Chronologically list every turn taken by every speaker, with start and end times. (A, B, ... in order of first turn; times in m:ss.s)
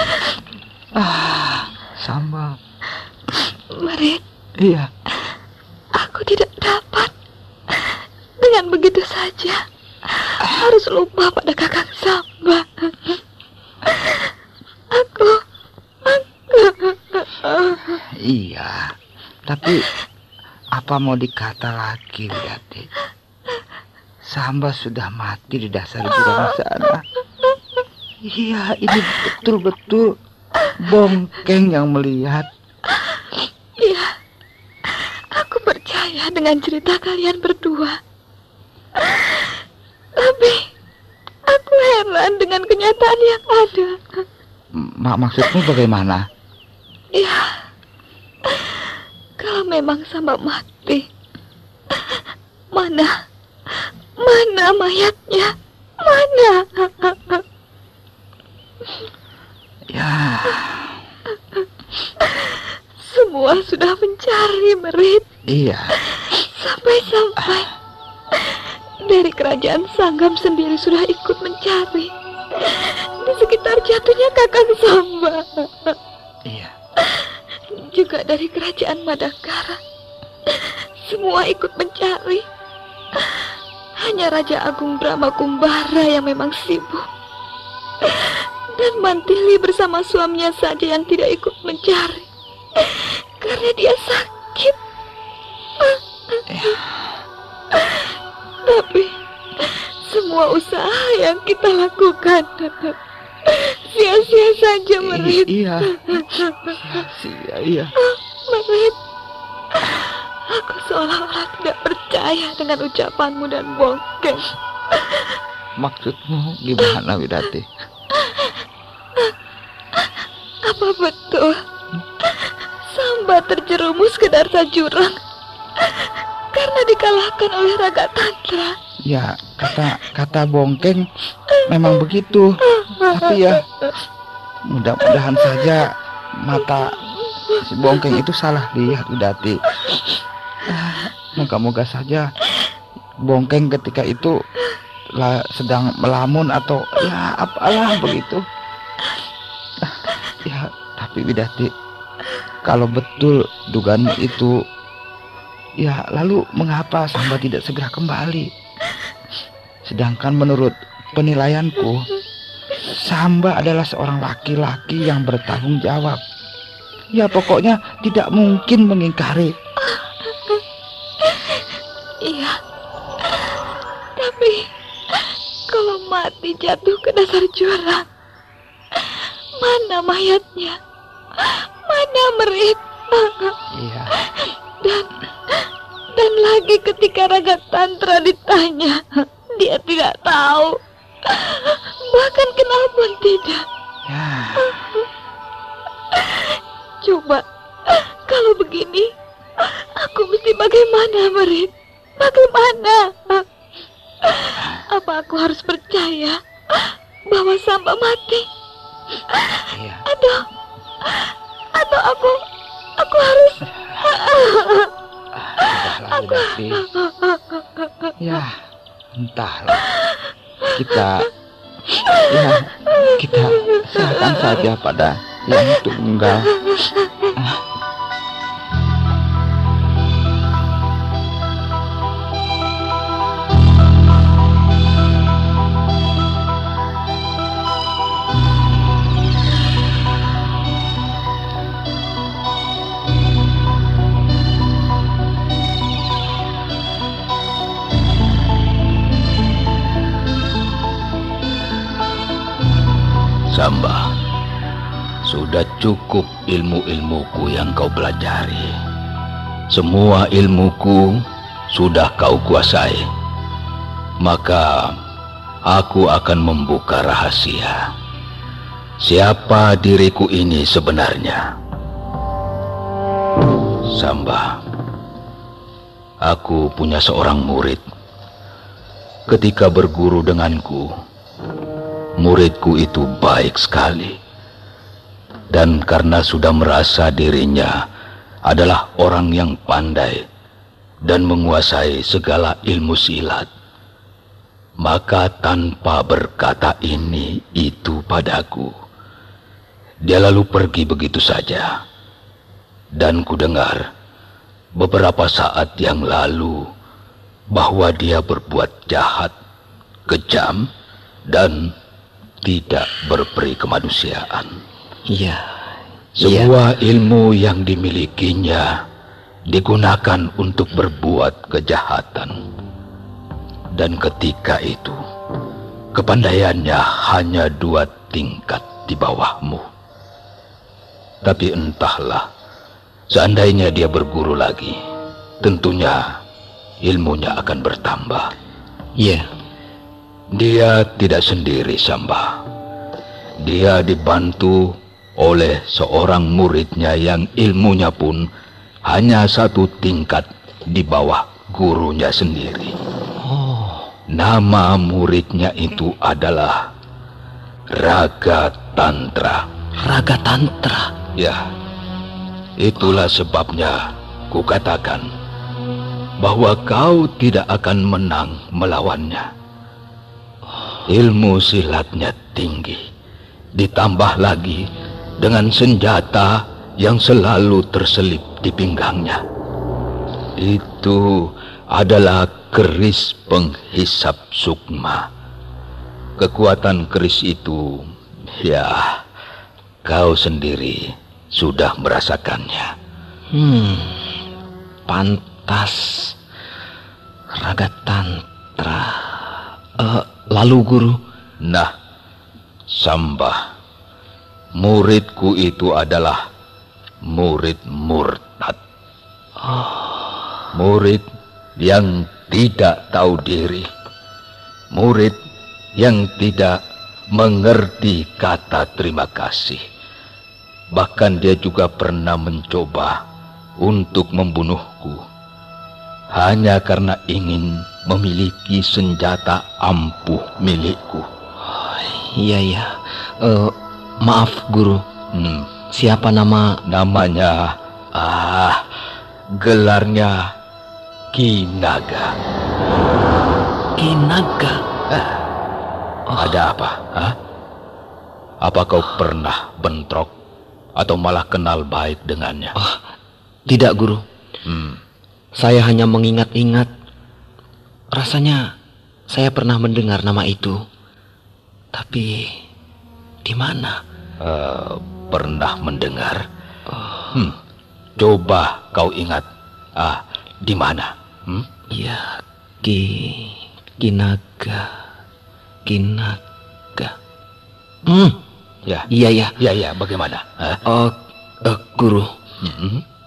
0:01.0-0:02.6 A
0:03.7-0:04.2 B
0:04.6-0:04.9 A
0:05.9-0:07.1 B
0:07.7-0:09.6 B
0:10.2-0:13.2 B
0:14.9-0:15.4 B
0:16.0-0:17.8 B
0:18.2-0:18.9 A
0:19.5-0:19.9 A
0:20.8-0:22.9 A
0:24.3-0:27.0 A
0:28.3-0:30.1 A
0:30.8-0:32.5 A
0:33.8-0:34.1 B
0:34.9-0:38.0 B
0:39.0-0:39.4 B
0:40.2-0:40.7 B
0:41.5-0:44.2 B
0:44.8-0:46.2 A
0:47.2-0:47.5 B
0:48.5-0:51.1 B
0:51.9-0:52.2 B
0:52.7-0:53.1 B
0:54.2-0:57.4 B
0:59.9-1:00.9 A
1:02.2-1:05.3 B
1:05.5-1:05.9 A
1:06.2-1:07.7 B
1:08.3-1:16.0 B
1:17.0-1:19.8 B
1:20.5-1:22.4 B
1:24.0-1:27.1 B
1:28.0-1:34.8 B
1:36.5-1:36.8 A
1:37.7-1:38.0 B
1:38.7-1:43.0 B
1:43.5-1:46.8 B
1:45.0-1:46.3 A
1:46.9-1:47.9 A
1:48.0-1:49.0 B
1:50.5-1:55.3 B
1:55.8-1:57.7 A
1:58.2-1:58.5 B
2:00.7-2:01.6 B
2:02.2-2:05.2 B
2:05.8-2:08.8 B
2:09.1-2:11.1 A
2:11.6-2:13.6 A
2:12.8-2:13.4 B
2:14.7-2:17.0 A
2:17.5-2:19.6 A
2:20.7-2:22.3 A
2:23.2-2:24.4 A
2:25.2-2:28.4 A
2:29.9-2:31.7 A
2:32.6-2:34.6 A
2:35.8-2:38.5 A
2:39.9-2:42.0 A
2:42.9-2:46.2 A
2:47.2-2:49.6 A
2:49.9-2:50.6 B
2:51.2-2:51.6 B
2:52.2-2:52.6 B
2:54.2-2:58.0 B
2:59.0-3:00.8 B
3:01.4-3:03.6 B
3:03.8-3:04.1 A
3:04.2-3:13.6 B
3:14.1-3:14.8 A
3:16.1-3:23.4 B
3:24.2-3:28.5 B
3:29.4-3:30.5 B
3:29.7-3:30.0 A
3:31.0-3:32.4 B
3:33.0-3:34.9 B
3:35.4-3:36.8 A
3:35.6-3:37.4 B
3:38.2-3:38.5 A
3:39.2-3:39.9 A
3:40.7-3:41.3 A
3:42.2-3:46.5 A
4:13.5-4:14.1 C
4:15.2-4:18.7 C
4:19.7-4:21.1 C
4:21.7-4:23.1 C
4:24.2-4:24.9 C
4:25.7-4:27.8 C
4:29.0-4:31.4 C
4:33.9-4:34.6 C
4:36.2-4:37.8 C
4:39.3-4:40.9 C
4:42.2-4:44.2 C
4:45.5-4:47.7 C
4:48.5-4:50.2 C
4:51.0-4:53.5 C
4:54.8-4:58.7 C
5:00.1-5:01.7 C
5:03.0-5:03.9 C
5:04.8-5:06.6 C
5:07.5-5:09.3 C
5:10.1-5:10.7 C
5:11.3-5:11.7 C
5:12.4-5:14.6 C
5:15.1-5:15.5 D
5:16.2-5:18.7 C
5:16.2-5:16.5 D
5:19.5-5:22.4 C
5:23.8-5:25.0 C
5:26.0-5:29.7 C
5:31.2-5:32.3 C
5:33.1-5:34.8 C
5:35.4-5:36.0 C
5:36.8-5:38.3 C
5:39.0-5:39.3 D
5:40.3-5:42.4 C
5:43.4-5:48.3 C
5:48.9-5:52.7 C
5:54.1-5:56.6 C
5:57.7-5:59.4 C
5:59.8-6:00.9 D
6:01.2-6:01.4 C
6:02.6-6:03.8 C
6:04.3-6:05.1 C
6:06.2-6:09.3 C
6:10.9-6:12.8 C
6:13.6-6:14.6 C
6:15.2-6:19.2 C
6:20.4-6:25.1 C
6:26.2-6:29.0 C
6:29.8-6:32.7 C
6:33.3-6:34.0 D
6:34.9-6:36.1 D
6:37.4-6:39.0 D
6:39.8-6:41.0 D
6:41.4-6:41.7 C
6:42.7-6:43.4 C
6:44.6-6:46.2 C
6:47.1-6:48.6 C
6:50.5-6:51.0 C
6:51.6-6:53.7 C
6:54.7-6:55.2 C
6:55.8-6:56.6 C
6:57.1-6:59.6 C
7:00.7-7:03.0 C
7:03.6-7:05.0 C
7:06.1-7:11.1 C
7:11.4-7:14.8 D
7:15.1-7:15.5 C
7:15.7-7:16.6 D
7:16.7-7:18.7 C
7:19.4-7:20.3 C
7:21.1-7:22.1 C
7:23.8-7:24.5 D
7:24.9-7:25.2 C
7:26.2-7:27.2 C
7:28.4-7:30.1 C
7:30.8-7:32.5 C
7:33.5-7:34.0 D
7:34.5-7:34.8 C
7:35.4-7:36.7 D
7:37.9-7:38.4 D
7:39.1-7:40.6 D
7:41.7-7:42.3 D
7:43.2-7:43.8 D
7:44.2-7:46.3 C
7:48.0-7:51.5 C
7:51.7-7:54.7 D
7:55.7-7:56.2 D
7:57.9-7:58.2 D
7:58.9-7:59.3 D
7:59.4-8:00.6 C
8:00.7-8:02.1 D
8:02.4-8:02.8 C